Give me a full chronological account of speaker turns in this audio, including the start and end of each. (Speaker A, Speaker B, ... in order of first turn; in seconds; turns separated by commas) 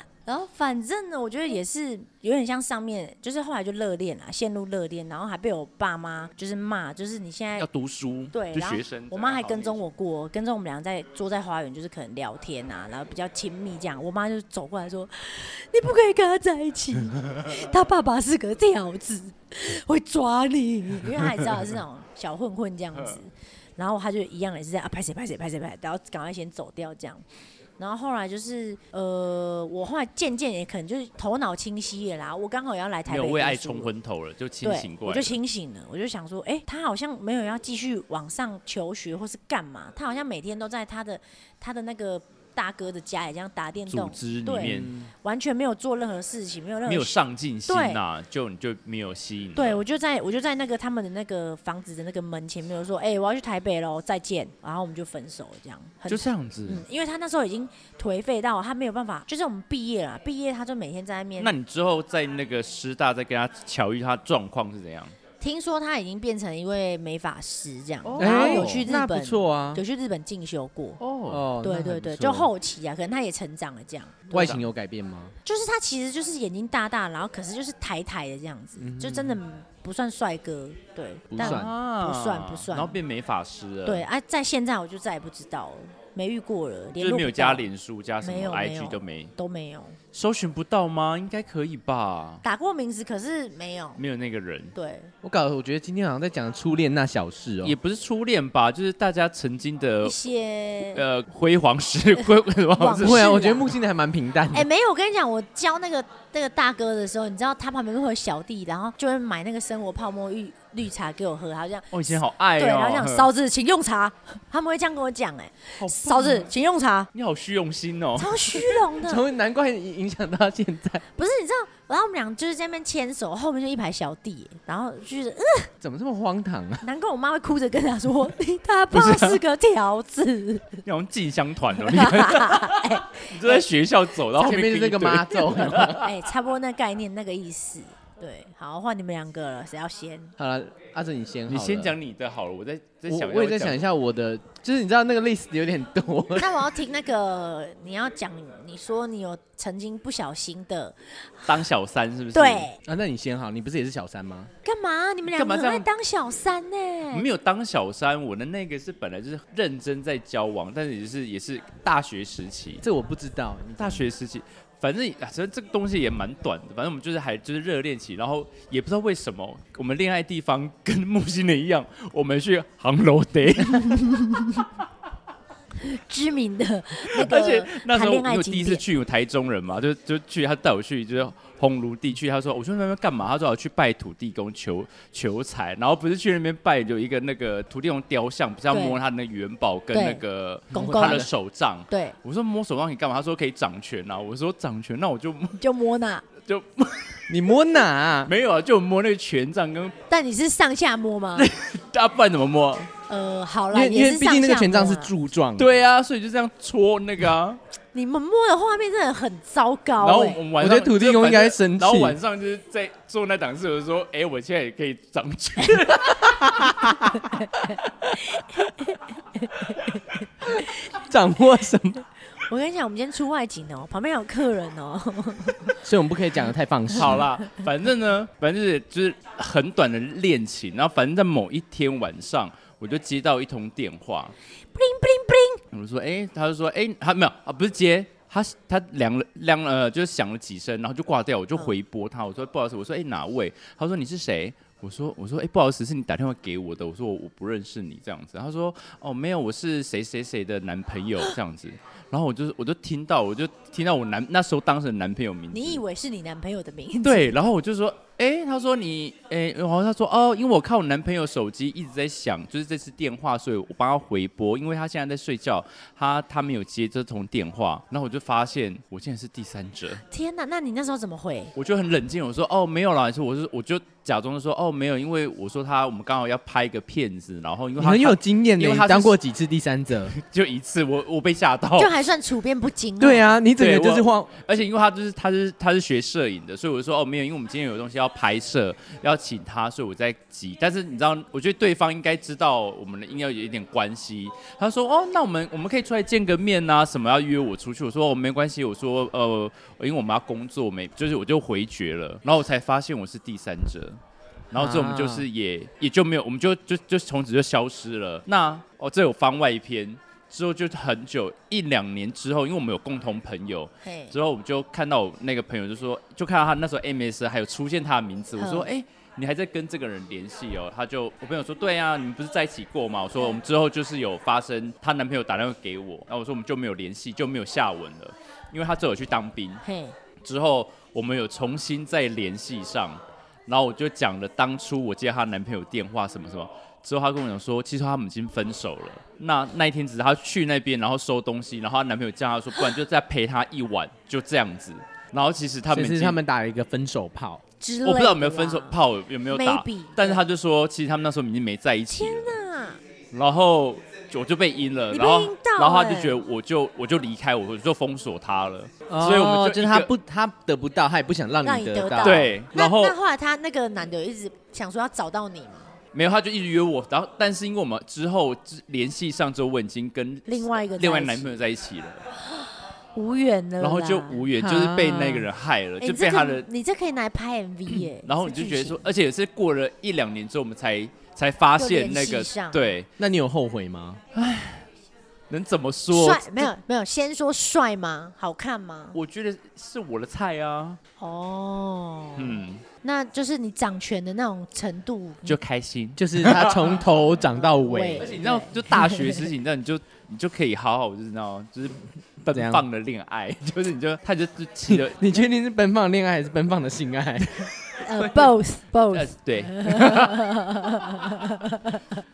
Speaker A: 0.3-7.7, Speaker B: 7.6-9.8, Speaker A: 8.3-27.2, Speaker A: 27.8-33.9, Speaker B: 33.1-35.4, Speaker A: 34.6-48.0, Speaker B: 43.9-45.0, Speaker C: 44.6-45.1, Speaker B: 46.9-49.8, Speaker A: 49.6-61.5, Speaker B: 56.1-56.9, Speaker B: 61.4-65.1, Speaker A: 65.4-71.0, Speaker B: 68.1-68.8, Speaker C: 68.2-69.8, Speaker B: 71.0-71.4, Speaker C: 71.2-72.5, Speaker A: 71.6-74.6, Speaker C: 74.3-75.3, Speaker B: 74.3-74.7, Speaker A: 75.5-83.0, Speaker C: 78.8-79.4, Speaker C: 81.3-81.7, Speaker B: 81.4-84.1, Speaker A: 83.8-87.7, Speaker B: 87.0-89.3, Speaker A: 88.2-90.0, Speaker B: 90.1-92.4, Speaker A: 92.4-94.0, Speaker B: 94.0-94.8, Speaker A: 94.8-95.1, Speaker C: 95.2-97.8, Speaker B: 97.6-100.2, Speaker A: 100.0-101.0, Speaker B: 100.9-103.3, Speaker A: 102.8-103.7, Speaker C: 103.0-104.7, Speaker A: 104.5-117.1, Speaker B: 111.9-113.3, Speaker B: 115.9-116.5, Speaker B: 117.1-118.6, Speaker A: 118.2-119.2, Speaker C: 118.9-121.0, Speaker A: 121.2-125.7, Speaker C: 125.8-126.8, Speaker A: 126.8-130.8, Speaker B: 128.9-129.4, Speaker B: 130.8-136.1, Speaker A: 131.8-133.7, Speaker C: 134.3-136.1, Speaker A: 136.0-140.3, Speaker C: 140.4-142.0, Speaker B: 141.5-143.8, Speaker C: 143.1-146.6, Speaker A: 146.4-151.6, Speaker B: 151.5-152.7, Speaker A: 152.3-152.8, Speaker C: 152.8-154.5, Speaker A: 154.6-157.3, Speaker B: 155.3-155.9, Speaker B: 157.1-162.8, Speaker C: 162.8-164.1, Speaker B: 163.8-174.2, Speaker A: 173.7-174.7, Speaker A: 175.8-178.8, Speaker B: 177.1-195.6, Speaker A: 188.7-189.0, Speaker A: 189.9-191.3, Speaker C: 190.7-191.3, Speaker A: 191.9-192.2, Speaker A: 195.6-196.3, Speaker B: 196.4-197.3, Speaker C: 197.3-198.3, Speaker B: 198.3-200.0, Speaker A: 200.1-201.5, Speaker B: 201.3-202.9, Speaker A: 203.1-205.1, Speaker C: 203.7-205.8, Speaker B: 205.6-207.6, Speaker A: 207.9-210.4, Speaker B: 210.0-216.9, Speaker C: 210.6-212.2, Speaker C: 216.1-217.1, Speaker A: 217.1-221.0, Speaker C: 220.5-222.0, Speaker A: 222.5-225.8, Speaker C: 225.8-227.3, Speaker B: 226.9-234.3, Speaker A: 234.7-235.6, Speaker B: 235.7-255.8, Speaker A: 255.5-257.3, Speaker B: 257.0-270.0, Speaker A: 270.1-271.5, Speaker B: 271.6-279.2, Speaker C: 277.8-280.1, Speaker B: 280.1-281.9, Speaker A: 281.8-283.4, Speaker C: 283.0-284.4, Speaker B: 283.6-304.0, Speaker B: 304.5-329.6, Speaker C: 304.5-305.3, Speaker A: 313.8-314.2, Speaker A: 318.4-318.7, Speaker A: 329.6-330.0, Speaker B: 330.2-346.2, Speaker C: 345.7-347.4, Speaker A: 347.6-350.2, Speaker B: 347.8-352.4, Speaker A: 351.9-352.8, Speaker B: 353.1-359.9, Speaker A: 354.9-356.2, Speaker C: 358.9-362.3, Speaker A: 361.4-365.7, Speaker B: 362.0-363.0, Speaker B: 365.9-372.1, Speaker A: 370.3-371.4, Speaker A: 372.3-374.2, Speaker B: 373.6-376.5, Speaker C: 374.3-375.3, Speaker A: 375.8-378.8, Speaker B: 377.9-382.9, Speaker A: 381.6-382.8, Speaker C: 383.0-384.0, Speaker B: 384.1-384.7, Speaker B: 385.3-386.5, Speaker A: 385.9-389.0, Speaker B: 388.9-390.8, Speaker A: 391.0-395.4, Speaker B: 392.2-392.6, Speaker B: 395.2-396.8, Speaker C: 396.0-398.2, Speaker A: 397.5-399.3, Speaker B: 398.0-405.0, Speaker C: 402.3-402.6, Speaker C: 404.7-407.5, Speaker A: 407.8-412.0, Speaker B: 407.9-408.4, Speaker B: 408.9-410.4